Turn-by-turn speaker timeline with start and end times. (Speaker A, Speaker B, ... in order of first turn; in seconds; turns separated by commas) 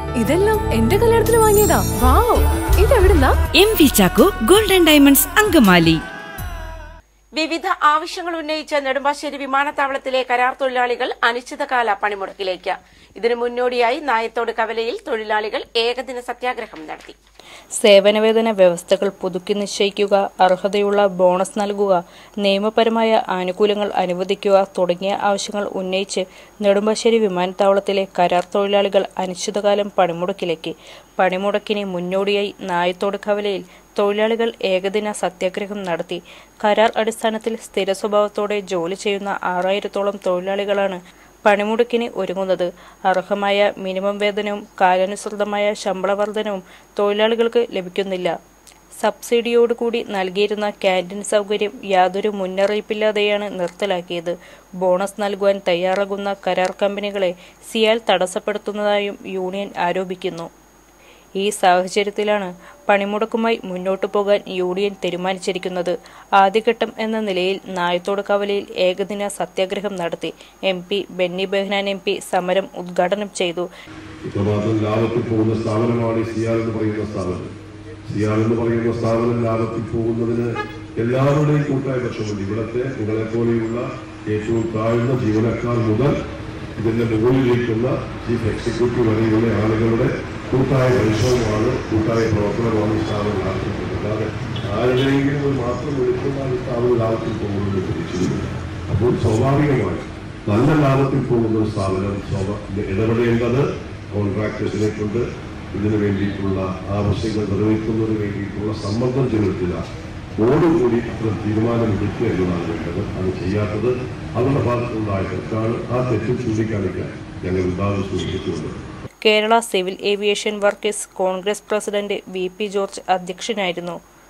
Speaker A: 0.2-3.4, Speaker B: 3.5-6.0, Speaker C: 7.3-17.1, Speaker D: 17.8-48.4, Speaker D: 49.0-60.5, Speaker D: 61.4-73.7, Speaker E: 74.3-77.5, Speaker E: 78.1-86.2, Speaker E: 86.8-109.8, Speaker E: 110.4-118.8, Speaker D: 119.2-124.0